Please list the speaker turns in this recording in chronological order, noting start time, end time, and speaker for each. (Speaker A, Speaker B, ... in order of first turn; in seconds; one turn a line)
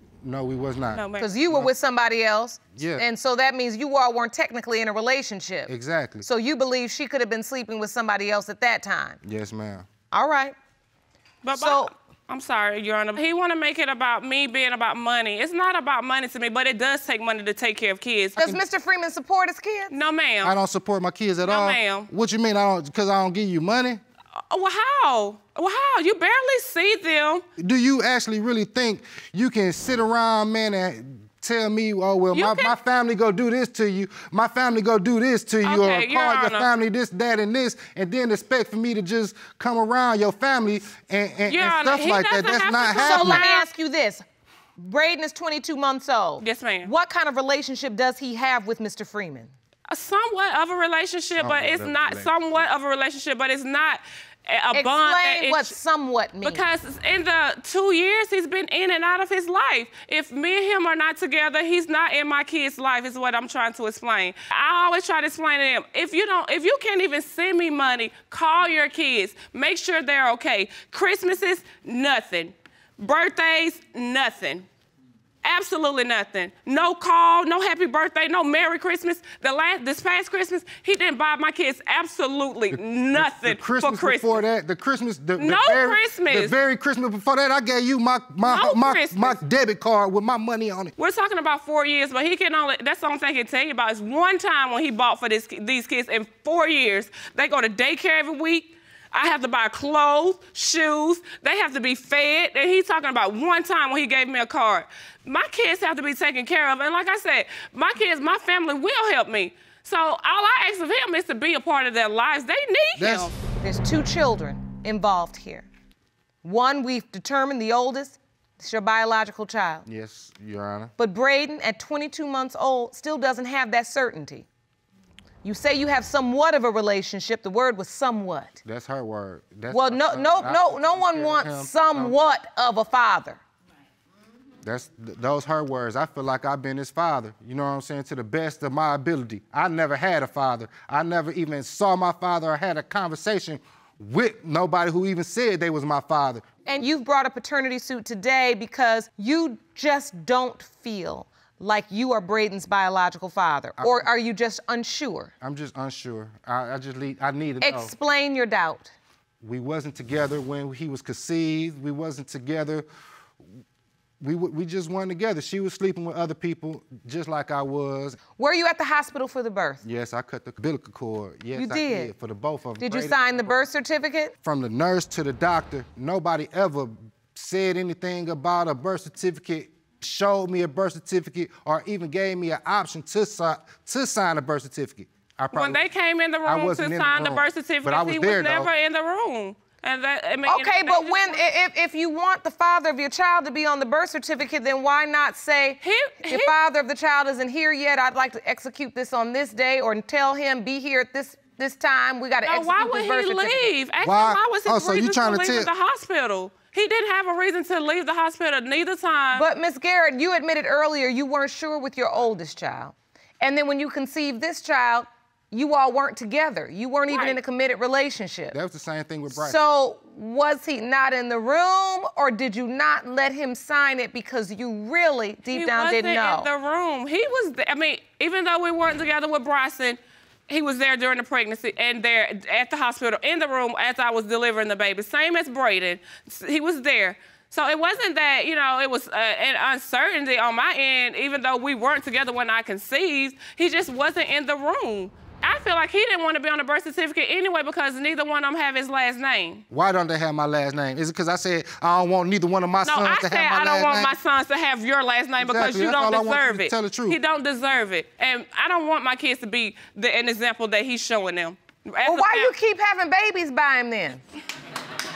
Speaker A: 0.2-1.7
Speaker B: 0.9-1.3
Speaker C: 1.2-5.7
Speaker A: 2.8-3.0
Speaker A: 5.7-6.2
Speaker C: 6.2-9.2
Speaker A: 9.2-9.8
Speaker C: 10.1-10.5
Speaker B: 11.4-18.4
Speaker C: 11.5-11.9
Speaker C: 18.4-19.9
Speaker B: 19.9-20.6
Speaker A: 20.4-24.0
Speaker B: 21.4-22.1
Speaker B: 24.5-27.4
Speaker A: 27.6-43.5
Speaker B: 32.3-32.7
Speaker B: 35.6-36.7
Speaker B: 41.5-43.7
Speaker C: 43.0-44.2
Speaker C: 44.8-49.5
Speaker B: 46.4-46.9
Speaker B: 49.9-55.7
Speaker A: 51.4-52.6
Speaker C: 54.7-56.6
Speaker B: 56.4-74.7
Speaker B: 75.4-84.4
Speaker A: 82.7-90.9
Speaker B: 85.4-86.5
Speaker B: 88.4-89.4
Speaker B: 91.0-113.3
Speaker A: 113.0-113.3
Speaker C: 113.6-115.7
Speaker C: 116.4-119.8
Speaker A: 119.8-120.9
Speaker C: 121.0-124.5
Speaker C: 125.4-128.6
Speaker A: 128.6-132.2
Speaker C: 129.7-133.4
Speaker A: 134.6-146.4
Speaker C: 146.7-155.3
Speaker A: 153.8-154.1
Speaker A: 155.4-157.9
Speaker C: 157.6-158.9
Speaker A: 159.4-162.8
Speaker A: 164.2-168.2
Speaker C: 168.4-169.8
Speaker A: 169.8-173.2
Speaker C: 171.5-172.1
Speaker C: 172.8-174.3
Speaker A: 174.4-185.8
Speaker B: 185.5-191.4
Speaker A: 186.4-188.7
Speaker C: 190.4-203.7
Speaker B: 195.8-196.5
Speaker B: 202.4-209.4
Speaker A: 204.0-205.7
Speaker C: 209.3-218.6
Speaker B: 217.1-217.4
Speaker A: 218.5-219.6
Speaker C: 219.3-226.5
Speaker B: 225.5-249.6
Speaker A: 249.7-254.1
Speaker B: 252.8-262.5
Speaker A: 255.4-257.2
Speaker C: 262.0-264.2